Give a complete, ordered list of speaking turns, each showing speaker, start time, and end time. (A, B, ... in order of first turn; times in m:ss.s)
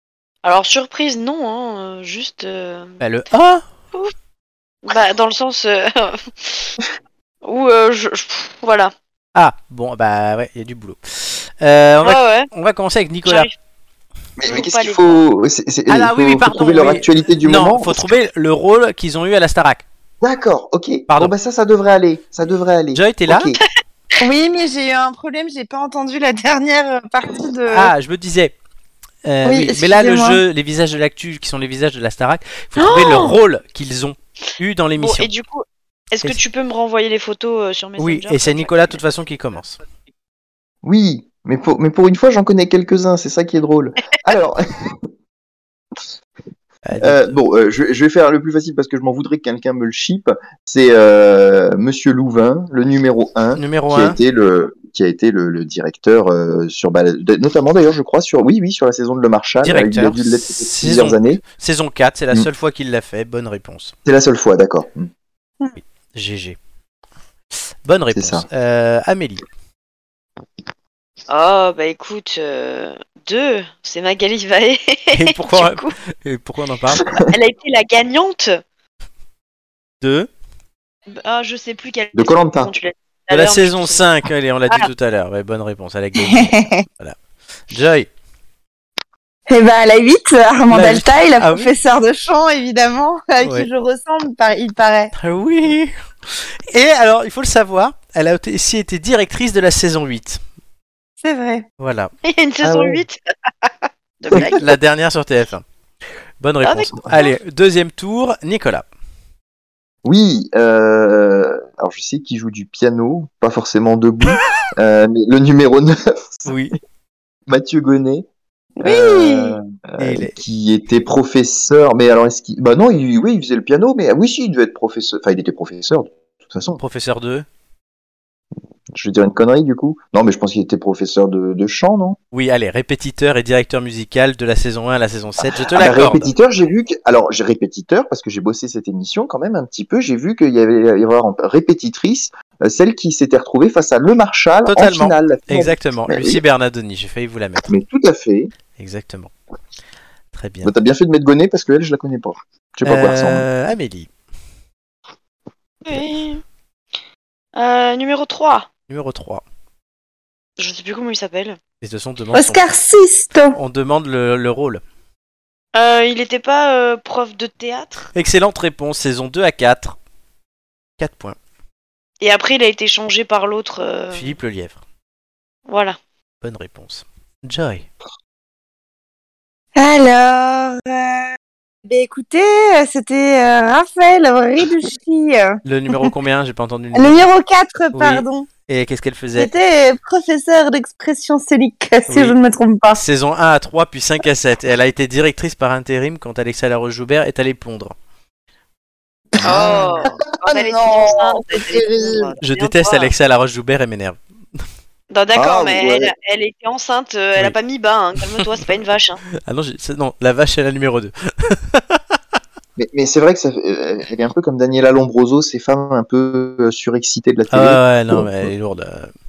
0:00.4-0:03.0 A
0:03.0-0:03.6 B
0:04.8-0:06.8 A
0:07.4-0:08.9 A
0:09.4-0:13.5 B
0:12.0-0:12.5 A
0:13.2-0:13.5 A
0:14.4-0:18.0 C
0:14.5-0:15.2 A
0:15.9-0:19.8 B
0:20.2-0:23.6 C
0:21.1-0:21.3 B
0:22.9-0:23.5 B
0:24.2-0:27.9 D
0:27.7-0:28.5 B
0:29.2-0:35.3 B
0:29.4-0:30.4 D
0:32.8-0:33.4 A
0:35.0-0:39.0 A
0:38.0-0:39.8 B
0:40.8-0:45.0 C
0:46.8-0:47.4 B
0:47.0-1:01.4 C
0:53.6-0:54.2 B
0:59.6-1:03.9 B
1:04.1-1:05.1 C
1:05.8-1:06.6 B
1:07.8-1:09.4 B
1:08.1-1:08.5 C
1:11.3-1:16.0 A
1:15.1-1:17.1 B
1:17.0-1:17.3 C
1:17.1-1:18.6 A
1:20.0-1:20.3 B
1:21.1-1:24.1 A
1:22.2-1:22.8 C
1:23.3-1:27.2 B
1:26.2-1:26.8 D
1:27.7-1:28.1 B
1:29.5-1:35.1 D
1:30.7-1:31.7 B
1:33.4-1:33.7 B
1:35.2-1:40.4 B
1:41.2-1:41.6 D
1:41.8-1:42.1 B
1:42.2-1:44.6 A
1:42.6-1:43.0 C
1:44.3-1:44.6 C
1:44.3-1:45.6 B
1:46.4-1:48.9 B
1:46.6-1:47.4 A
1:50.0-1:56.6 C
1:56.5-1:56.8 B
1:57.5-1:58.3 C
1:58.8-1:59.6 D
1:58.8-1:59.4 B
1:59.2-2:06.8 C
2:00.0-2:00.4 B
2:06.8-2:07.5 B
2:08.9-2:12.2 C
2:12.3-2:16.3 B
2:15.6-2:26.4 C
2:24.7-2:27.7 B
2:27.7-2:28.5 C
2:28.8-2:29.3 B
2:30.3-2:30.7 B
2:30.6-2:33.5 C
2:32.8-2:34.1 B
2:35.8-2:36.4 A
2:37.6-2:38.7 A
2:38.9-2:39.4 B
2:40.6-2:41.6 A
2:41.8-2:42.7 B
2:42.4-2:43.6 D
2:43.5-2:44.8 B
2:45.7-2:48.1 A
2:48.1-2:50.0 B
2:51.0-2:51.4 B
2:52.2-2:54.4 A
2:54.1-2:54.8 B
2:55.7-2:56.0 A
2:56.4-2:57.9 B
2:59.8-3:01.3 D
3:01.9-3:06.1 D
3:05.6-3:07.3 B
3:06.9-3:08.5 D
3:07.9-3:09.5 B
3:09.4-3:13.0 D
3:12.1-3:12.4 B
3:12.9-3:18.0 B
3:19.4-3:22.4 D
3:19.4-3:23.1 A
3:22.4-3:24.6 B
3:25.1-3:29.2 A
3:25.3-3:26.1 C
3:29.5-3:32.2 B
3:32.8-3:38.5 C
3:37.5-3:39.1 B